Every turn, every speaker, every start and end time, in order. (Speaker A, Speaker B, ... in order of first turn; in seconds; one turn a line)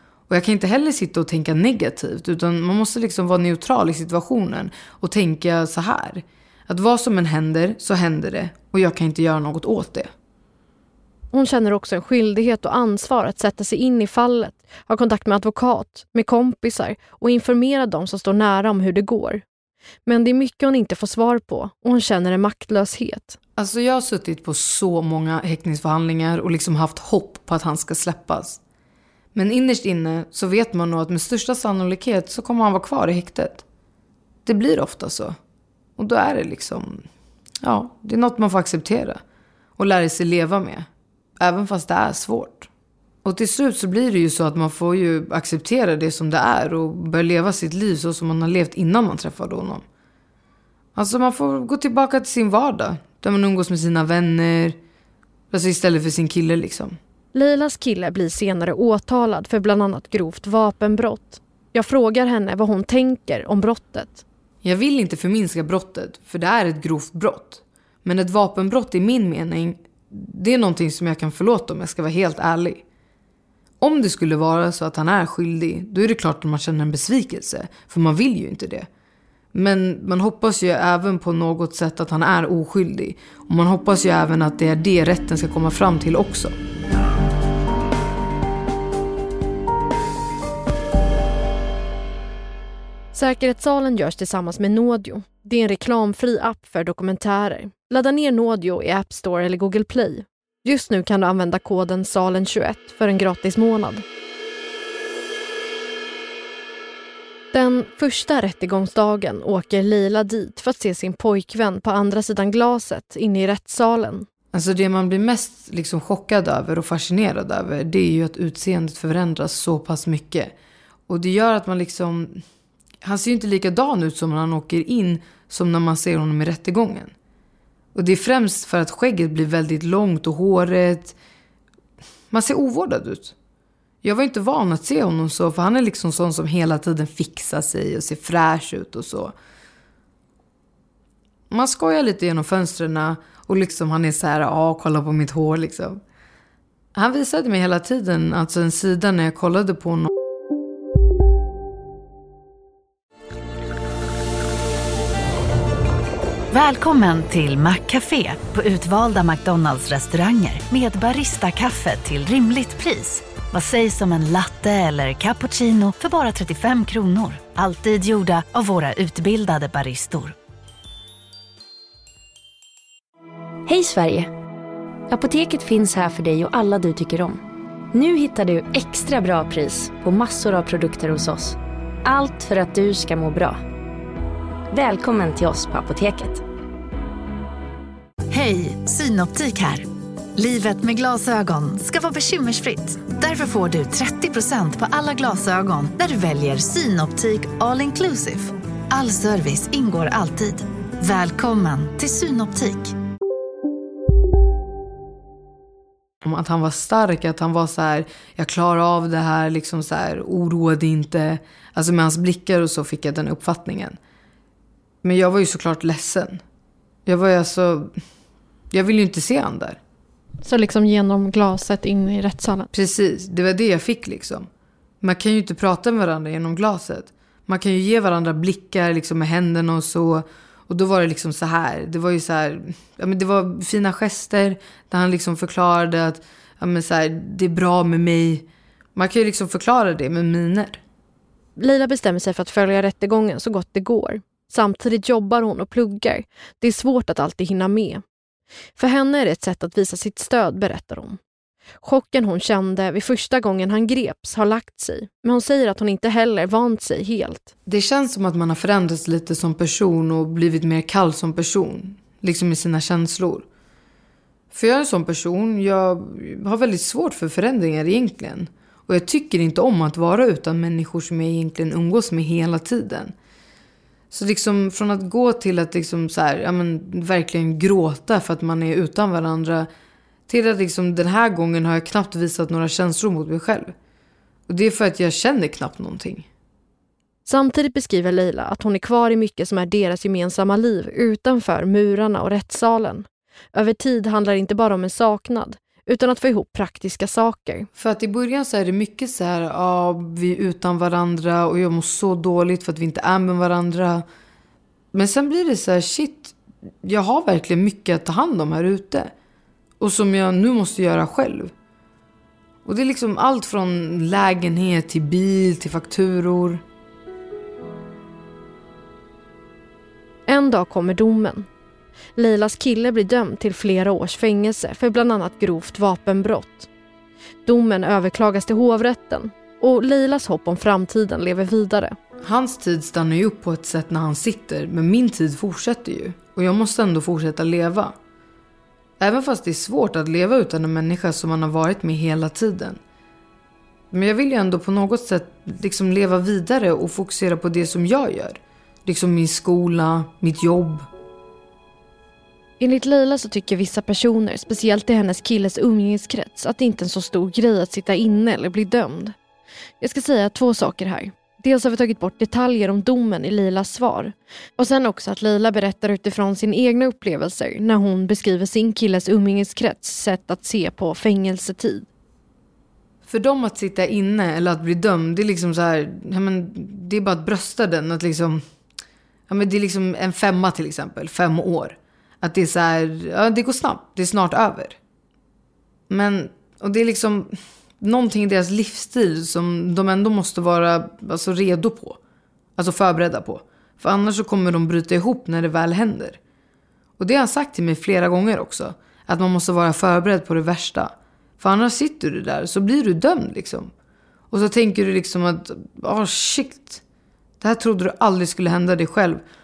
Speaker A: 0.3-10.1
Speaker B: 11.3-19.4
Speaker B: 20.1-23.4
Speaker A: 23.6-28.6
Speaker A: 29.3-33.6
Speaker A: 34.5-35.4
Speaker A: 36.0-37.1
Speaker A: 37.6-39.2
Speaker A: 39.8-40.9
Speaker A: 41.4-42.7
Speaker A: 43.2-49.8
Speaker A: 50.9-54.8
Speaker A: 55.5-57.0
Speaker B: 57.3-64.2
Speaker A: 64.6-72.8
Speaker A: 73.8-78.9
Speaker A: 79.5-86.5
Speaker B: 93.1-104.0
Speaker B: 107.5-114.3
Speaker A: 114.5-120.5
Speaker A: 121.1-122.4
Speaker A: 123.0-127.1
Speaker A: 127.9-131.2
Speaker A: 132.3-133.3
Speaker A: 134.0-139.3
Speaker A: 141.5-146.0
Speaker A: 146.9-150.1
Speaker C: 156.5-170.3
Speaker D: 173.7-174.3
Speaker D: 175.1-177.4
Speaker D: 177.9-183.6
Speaker D: 184.7-186.4
Speaker C: 188.3-202.9
Speaker A: 206.2-214.0
Speaker A: 215.0-216.4
Speaker A: 217.1-217.9
Speaker A: 218.7-219.8
Speaker B: 220.4-222.7
Speaker A: 222.7-224.5
Speaker A: 225.0-240.8
Speaker B: 241.6-248.0
Speaker B: 248.8-251.2
Speaker B: 251.8-257.5
Speaker A: 257.6-263.4
Speaker A: 264.5-273.1
Speaker A: 274.1-279.7
Speaker A: 280.3-283.7
Speaker A: 284.5-286.3
Speaker B: 287.2-297.7
Speaker A: 297.8-304.0
Speaker A: 304.9-309.1
Speaker A: 309.8-311.5
Speaker A: 312.6-316.6
Speaker B: 320.3-321.5
Speaker B: 322.1-326.7
Speaker B: 327.4-331.9
Speaker A: 332.2-337.9
Speaker A: 339.0-342.8
Speaker A: 343.9-350.9
Speaker B: 352.6-359.1
Speaker B: 359.8-371.9
Speaker A: 373.1-378.4
Speaker A: 379.3-384.8
Speaker A: 385.9-392.0
Speaker A: 392.6-396.2
Speaker A: 397.0-403.7
Speaker A: 404.3-406.8
Speaker A: 407.4-409.2